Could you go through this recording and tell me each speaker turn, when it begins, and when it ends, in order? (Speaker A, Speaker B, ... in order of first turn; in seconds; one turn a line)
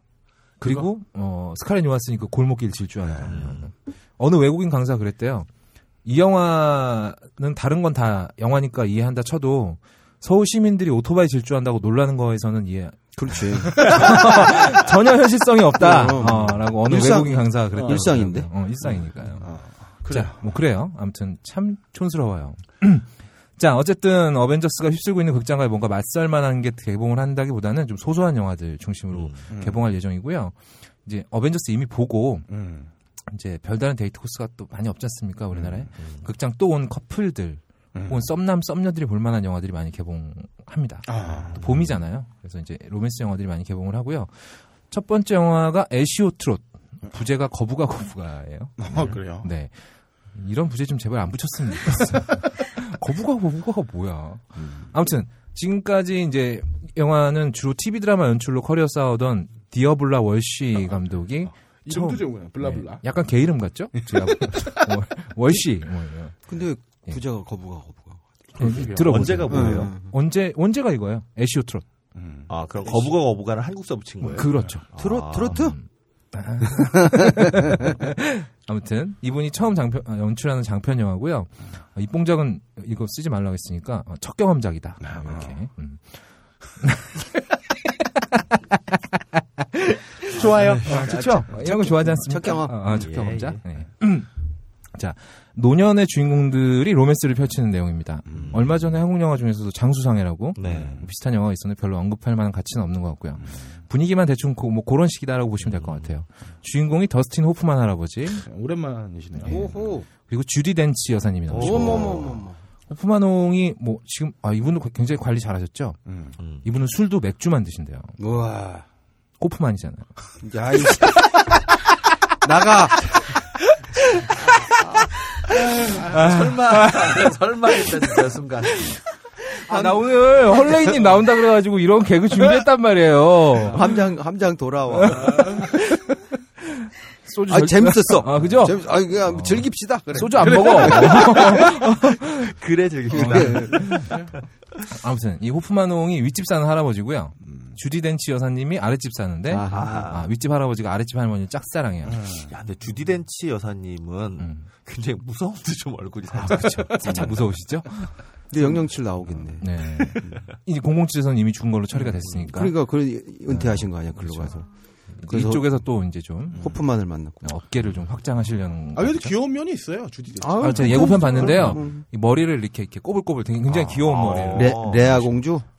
Speaker A: 0.6-0.9
Speaker B: 0.6-5.5
Speaker C: 3.2-3.6
Speaker B: 6.0-32.5
Speaker D: 13.1-14.2
Speaker D: 15.8-18.5
Speaker A: 17.7-18.1
Speaker A: 18.8-20.5
Speaker C: 29.1-29.4
Speaker A: 29.5-29.8
Speaker A: 32.5-32.9
Speaker B: 33.3-49.7
Speaker A: 35.5-35.9
Speaker A: 37.9-38.2
Speaker A: 41.0-41.8
Speaker A: 48.8-49.5
Speaker B: 50.3-66.4
Speaker A: 61.8-63.0
Speaker A: 64.0-65.0
Speaker D: 66.5-68.2
Speaker A: 68.5-69.4
Speaker B: 68.6-71.8
Speaker C: 68.7-69.9
Speaker D: 69.5-70.1
Speaker A: 72.1-72.5
Speaker C: 72.5-75.6
Speaker B: 74.2-74.8
Speaker D: 74.9-75.7
Speaker B: 75.4-86.2
Speaker A: 85.0-85.5
Speaker B: 86.8-87.2
Speaker B: 89.4-94.3
Speaker A: 90.3-91.4
Speaker D: 90.8-93.1
Speaker C: 92.9-93.6
Speaker B: 94.9-108.4
Speaker A: 98.3-98.6
Speaker C: 100.5-101.0
Speaker A: 100.7-101.1
Speaker A: 108.4-109.7
Speaker B: 109.4-112.4
Speaker D: 109.5-110.1
Speaker C: 111.5-112.4
Speaker D: 111.6-112.6
Speaker B: 112.9-116.0
Speaker A: 116.1-116.3
Speaker C: 116.4-116.7
Speaker B: 116.6-118.1
Speaker D: 118.2-118.8
Speaker B: 119.4-120.1
Speaker D: 120.4-121.1
Speaker D: 122.4-123.1
Speaker C: 124.8-128.8
Speaker B: 126.0-127.9
Speaker B: 129.7-134.0
Speaker D: 133.7-135.5
Speaker B: 134.9-136.2
Speaker B: 136.8-142.5
Speaker D: 137.5-141.3
Speaker A: 140.3-141.6
Speaker C: 142.3-144.2
Speaker D: 143.1-143.9
Speaker B: 143.1-144.1
Speaker A: 143.9-144.3
Speaker B: 144.9-152.2
Speaker D: 149.5-150.1
Speaker C: 149.7-150.3
Speaker A: 152.0-152.5
Speaker C: 152.3-157.2
Speaker B: 154.4-154.6
Speaker B: 156.3-158.1
Speaker D: 157.0-157.3
Speaker D: 158.5-159.7
Speaker B: 159.6-162.8
Speaker D: 162.3-164.7
Speaker B: 163.5-164.6
Speaker B: 165.2-166.8
Speaker D: 165.2-165.8
Speaker D: 166.6-167.5
Speaker B: 167.4-169.3
Speaker A: 168.9-171.8
Speaker D: 170.4-172.0
Speaker B: 170.6-175.4
Speaker A: 173.7-174.1
Speaker C: 173.9-175.1
Speaker D: 174.5-175.6